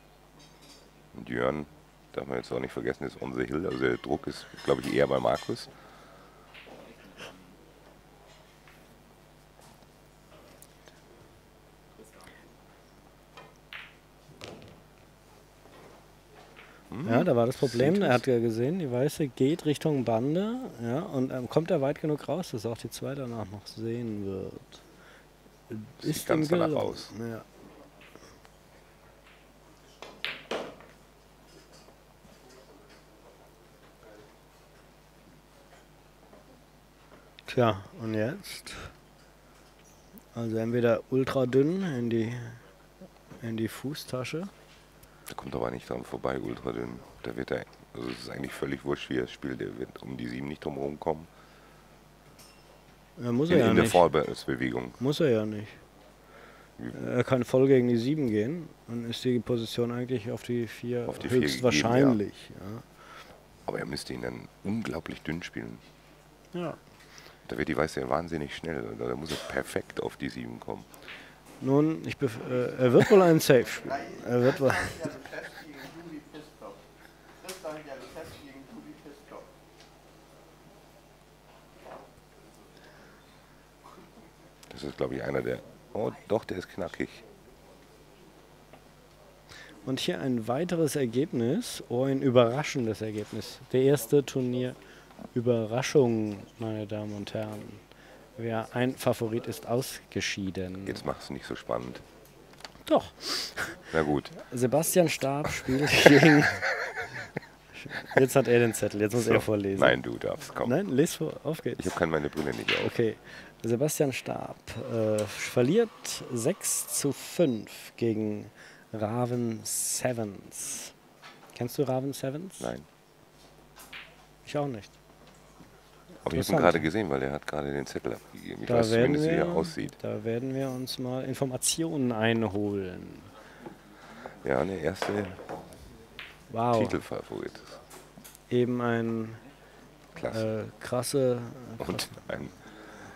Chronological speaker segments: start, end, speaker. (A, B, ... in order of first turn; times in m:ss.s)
0:01.1-0:05.7 A
0:16.9-0:18.2 A
0:17.0-0:24.8 B
0:25.7-0:27.4 B
0:26.0-0:27.1 A
0:37.5-0:38.9 B
0:40.3-0:42.6 B
0:43.4-0:44.5 B
0:45.3-0:51.3 A
0:53.2-0:54.1 B
0:53.5-0:55.0 A
0:55.0-0:55.8 B
0:56.9-1:02.8 B
1:01.1-1:02.2 A
1:03.6-1:05.8 A
1:06.5-1:06.8 B
1:07.4-1:10.9 A
1:11.6-1:15.1 B
1:13.8-1:16.8 C
1:17.4-1:19.5 C
1:24.7-1:27.2 A
1:29.8-1:34.8 B
1:35.3-1:37.8 B
1:38.4-1:41.1 B
1:40.8-1:42.0 A
1:42.8-1:46.7 B
1:43.9-1:44.3 A
1:47.8-1:50.0 B
1:49.2-1:50.8 A
1:50.6-1:51.9 B
1:51.8-1:52.9 A
1:52.7-2:00.9 B
2:01.5-2:02.7 B
2:02.6-2:02.9 A
2:04.4-2:04.9 B
2:06.2-2:06.9 B
2:06.2-2:10.0 A
2:08.6-2:13.3 B
2:14.4-2:15.4 A
2:16.5-2:17.0 B
2:16.7-2:17.8 A
2:18.5-2:19.4 B
2:20.1-2:20.5 A
2:20.3-2:22.3 B
2:21.8-2:22.5 A